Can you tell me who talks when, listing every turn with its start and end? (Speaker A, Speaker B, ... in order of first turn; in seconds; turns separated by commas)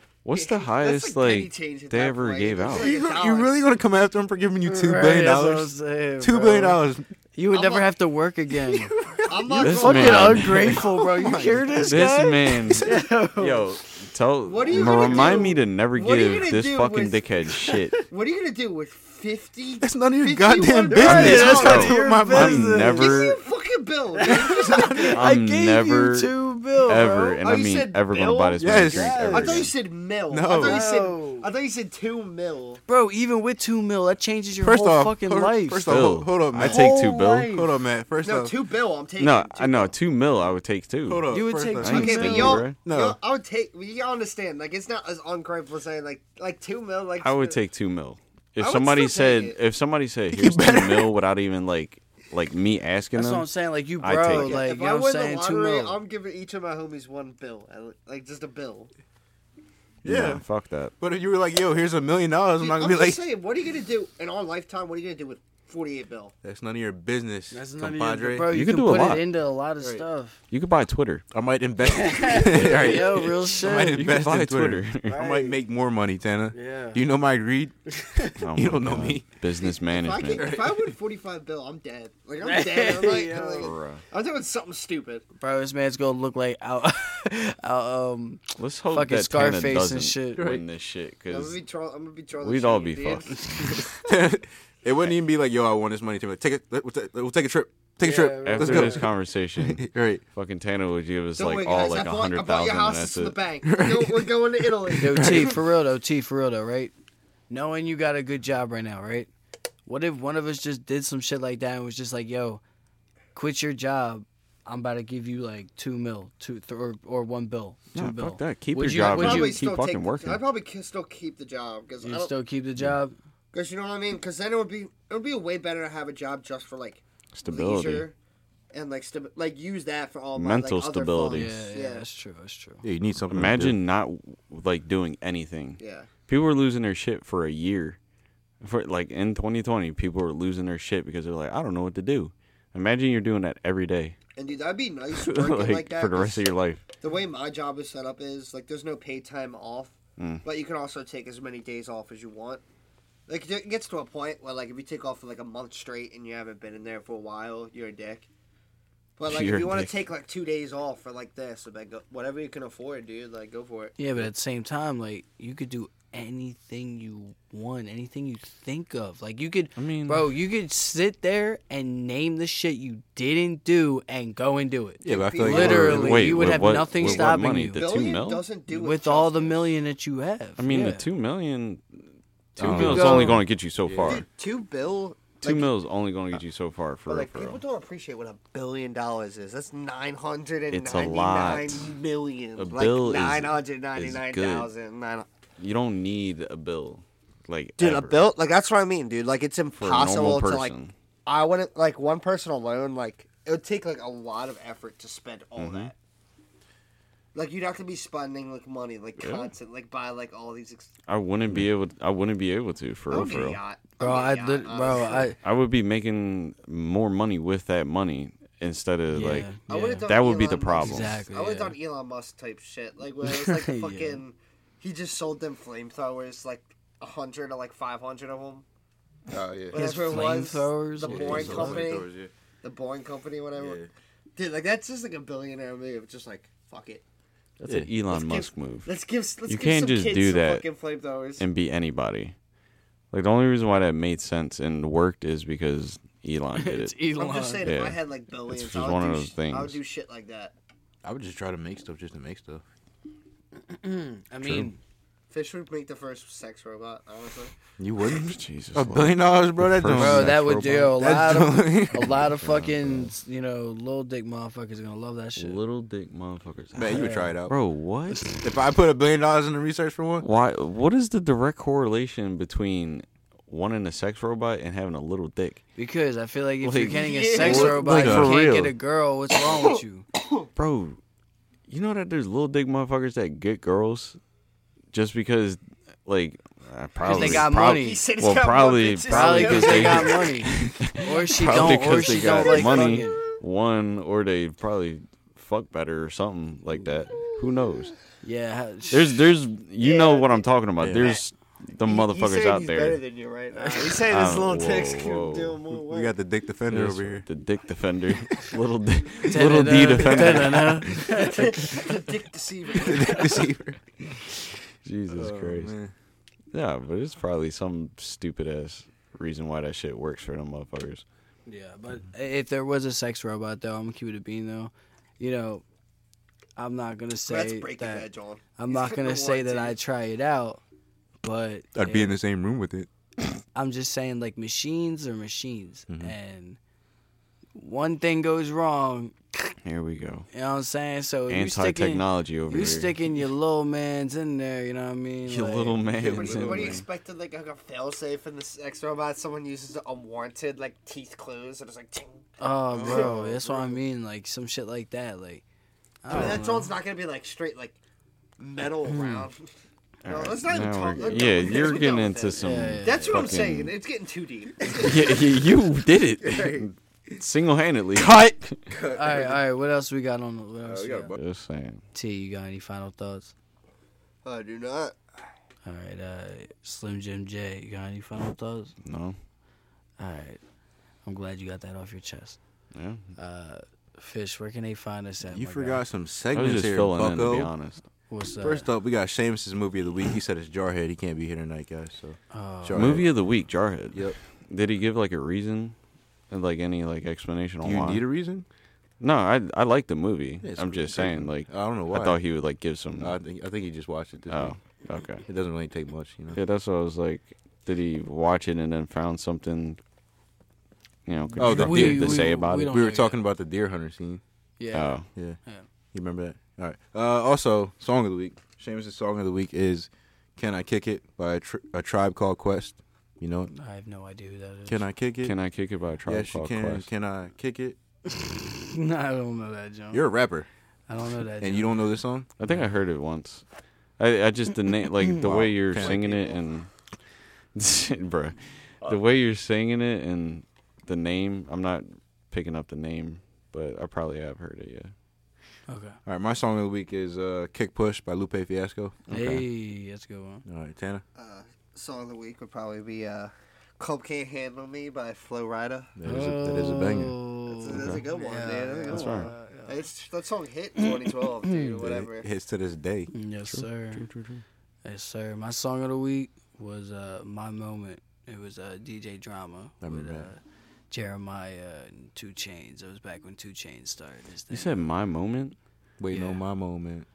Speaker A: 0.2-2.9, Speaker B: 0.3-3.5, Speaker C: 2.7-7.1, Speaker D: 4.6-6.8, Speaker D: 7.3-13.8, Speaker B: 7.5-7.9, Speaker B: 9.1-11.7, Speaker A: 9.5-10.8, Speaker C: 11.2-11.6, Speaker A: 11.7-18.0, Speaker B: 14.4-17.2, Speaker D: 14.9-15.2, Speaker D: 17.6-18.0, Speaker B: 18.1-22.0, Speaker C: 19.8-23.0, Speaker D: 20.9-23.2, Speaker A: 21.0-23.4, Speaker B: 22.9-25.1, Speaker D: 24.1-27.4, Speaker C: 24.3-25.1, Speaker A: 25.1-29.7, Speaker B: 27.4-32.8, Speaker C: 28.6-29.7, Speaker D: 28.9-29.5, Speaker C: 30.3-30.8, Speaker D: 30.5-31.5, Speaker D: 32.9-36.0, Speaker C: 34.6-38.5, Speaker A: 35.8-37.6, Speaker D: 36.5-37.7, Speaker B: 38.2-39.9, Speaker A: 39.2-41.3, Speaker C: 41.0-43.2, Speaker D: 41.3-42.6, Speaker A: 41.8-42.8, Speaker B: 41.8-47.6, Speaker A: 47.2-53.5, Speaker B: 48.6-49.6, Speaker C: 50.3-51.1, Speaker D: 53.1-56.0, Speaker A: 54.0-54.7, Speaker B: 54.2-58.9, Speaker C: 60.0-60.4, Speaker A: 60.0-60.9, Speaker C: 61.0-63.2, Speaker B: 62.6-66.3, Speaker C: 66.4-68.5, Speaker D: 67.5-70.4, Speaker A: 68.5-69.3, Speaker A: 70.5-71.2, Speaker C: 71.3-77.8, Speaker D: 71.8-74.0, Speaker A: 72.5-73.2, Speaker A: 73.8-75.2, Speaker D: 75.1-75.6, Speaker D: 76.5-77.0, Speaker D: 77.9-78.3, Speaker A: 78.4-80.5, Speaker C: 78.5-79.2, Speaker B: 79.6-85.2, Speaker C: 80.3-80.9, Speaker D: 82.4-83.7, Speaker A: 83.5-84.0, Speaker D: 85.4-90.5, Speaker A: 88.6-91.6, Speaker C: 90.4-90.6, Speaker B: 91.3-93.9, Speaker A: 92.4-93.8, Speaker C: 94.0-100.2, Speaker D: 98.0-99.0, Speaker A: 98.5-103.3, Speaker B: 101.4-105.5, Speaker C: 103.7-105.6, Speaker D: 105.0-106.9, Speaker D: 107.5-109.3, Speaker D: 109.8-112.6, Speaker D: 113.3-119.6, Speaker A: 117.9-120.4, Speaker B: 119.0-122.3, Speaker D: 122.0-123.1, Speaker B: 123.5-128.1, Speaker A: 127.3-128.1, Speaker B: 128.7-132.1, Speaker A: 130.3-131.6, Speaker D: 131.3-132.8, Speaker C: 132.8-133.8, Speaker A: 133.3-138.0, Speaker B: 135.8-136.1, Speaker A: 138.6-144.2, Speaker B: 144.3-146.5, Speaker A: 145.1-146.8, Speaker B: 147.0-152.6, Speaker A: 150.2-150.4, Speaker B: 153.3-158.3, Speaker B: 159.2-163.9, Speaker A: 159.2-159.9, Speaker D: 164.0-177.8, Speaker A: 169.8-170.3, Speaker C: 175.0-176.7, Speaker B: 175.2-176.3, Speaker A: 175.7-178.4, Speaker B: 177.0-179.7, Speaker D: 178.7-181.0, Speaker A: 180.6-184.2, Speaker D: 182.6-183.4, Speaker C: 182.6-184.2, Speaker B: 184.0-185.7, Speaker A: 185.4-187.6, Speaker B: 187.1-195.3, Speaker A: 190.7-191.9, Speaker A: 192.6-194.7, Speaker A: 195.6-198.2, Speaker B: 197.8-205.9, Speaker A: 199.8-200.9, Speaker A: 205.6-205.9, Speaker B: 207.3-210.9, Speaker A: 209.2-209.5, Speaker A: 211.1-213.6, Speaker B: 213.1-215.3, Speaker D: 214.0-215.4, Speaker A: 215.4-221.2, Speaker D: 219.1-220.1, Speaker B: 219.7-228.6, Speaker D: 220.8-221.8, Speaker D: 223.2-224.2, Speaker C: 229.3-229.9, Speaker B: 229.7-232.1, Speaker D: 229.7-231.8, Speaker C: 231.0-232.3, Speaker B: 232.6-233.8, Speaker C: 233.6-233.9, Speaker B: 234.4-237.0, Speaker A: 237.6-238.9, Speaker B: 238.1-241.4, Speaker A: 239.4-240.6, Speaker A: 241.4-242.3, Speaker A: 243.1-246.9, Speaker D: 246.6-247.7, Speaker B: 247.2-250.5, Speaker A: 247.6-249.8, Speaker C: 251.0-252.6, Speaker D: 253.7-254.8, Speaker B: 255.3-257.5, Speaker C: 257.8-262.2, Speaker A: 258.0-260.9, Speaker D: 259.9-265.6, Speaker A: 262.4-263.1, Speaker A: 265.4-268.3, Speaker C: 266.7-267.5, Speaker D: 266.8-267.3, Speaker D: 268.1-268.4, Speaker C: 268.4-270.2, Speaker A: 270.2-275.6, Speaker D: 275.8-280.0, Speaker A: 276.6-278.7, Speaker B: 276.9-278.0, Speaker C: 277.4-278.4, Speaker B: 280.1-280.5, Speaker A: 280.6-281.0, Speaker A: 281.7-284.2, Speaker A: 284.9-298.0, Speaker B: 287.0-290.4, Speaker D: 287.0-288.0, Speaker D: 289.1-293.2, Speaker B: 291.8-293.4, Speaker D: 298.2-299.3, Speaker A: 298.9-303.0, Speaker B: 299.8-300.5, Speaker C: 300.8-301.1, Speaker B: 301.8-306.1, Speaker D: 303.6-303.9, Speaker A: 304.0-305.6, Speaker C: 305.7-307.2, Speaker A: 306.7-311.3, Speaker D: 309.3-311.9, Speaker B: 311.1-313.3, Speaker C: 312.8-313.8, Speaker A: 314.8-315.7, Speaker C: 315.1-315.9, Speaker A: 316.5-321.0, Speaker D: 321.4-325.6, Speaker D: 326.6-330.6, Speaker B: 327.2-329.8, Speaker D: 331.2-332.1, Speaker C: 331.7-332.9, Speaker D: 333.5-336.6, Speaker C: 335.9-336.1, Speaker D: 337.5-339.5, Speaker A: 339.6-340.3, Speaker D: 340.3-346.8, Speaker A: 341.3-342.9, Speaker A: 345.2-346.8, Speaker B: 346.0-352.2, Speaker D: 352.4-355.4, Speaker C: 352.7-353.8, Speaker B: 352.8-353.2, Speaker D: 356.0-356.7, Speaker B: 356.1-357.8, Speaker B: 358.4-359.5, Speaker D: 358.9-359.3, Speaker A: 360.0-363.7, Speaker B: 360.0-365.3, Speaker C: 360.9-361.6, Speaker D: 362.4-363.4, Speaker A: 364.7-368.6, Speaker C: 366.2-366.7, Speaker C: 367.9-369.4, Speaker D: 368.9-371.1, Speaker C: 370.6-371.2, Speaker A: 371.1-371.8, Speaker D: 371.9-373.3, Speaker B: 374.2-375.0, Speaker D: 375.6-378.7, Speaker A: 378.8-379.1, Speaker D: 380.0-380.4, Speaker D: 381.0-382.4, Speaker A: 382.7-383.0, Speaker D: 383.1-385.8, Speaker C: 385.3-387.5, Speaker A: 386.3-387.8, Speaker D: 388.1-388.7, Speaker C: 388.4-393.1, Speaker D: 392.3-393.0, Speaker A: 392.7-395.7, Speaker C: 393.9-394.2, Speaker A: 396.3-398.0, Speaker C: 397.6-398.4, Speaker A: 399.0-403.2, Speaker C: 400.4-402.2, Speaker C: 402.9-404.6, Speaker A: 404.3-405.2, Speaker C: 405.2-406.4, Speaker A: 406.3-409.8, Speaker A: 411.1-412.8, Speaker D: 411.4-413.2, Speaker C: 411.4-414.2, Speaker D: 414.6-415.6, Speaker A: 414.7-415.1, Speaker C: 415.9-423.5, Speaker D: 423.5-424.8, Speaker C: 424.7-425.4, Speaker A: 425.2-426.9, Speaker C: 426.0-427.8, Speaker D: 428.1-430.1, Speaker C: 429.9-430.5, Speaker D: 430.9-431.8, Speaker C: 431.4-432.3, Speaker A: 432.4-433.4, Speaker A: 434.0-436.7, Speaker C: 435.2-436.0, Speaker B: 435.8-436.4, Speaker A: 437.5-444.9, Speaker D: 445.7-446.0, Speaker C: 446.0-448.9, Speaker A: 449.1-449.4, Speaker D: 449.1-450.4, Speaker C: 450.4-451.0, Speaker B: 451.1-455.9, Speaker C: 455.9-457.2, Speaker D: 456.0-459.8, Speaker B: 457.5-462.3, Speaker A: 457.7-458.0, Speaker A: 458.9-459.3, Speaker D: 461.4-461.8, Speaker C: 461.8-463.1, Speaker D: 463.1-464.1, Speaker A: 463.5-464.4, Speaker D: 464.8-474.8, Speaker C: 469.8-470.3, Speaker A: 474.5-475.6, Speaker C: 476.0-477.1, Speaker D: 476.1-476.4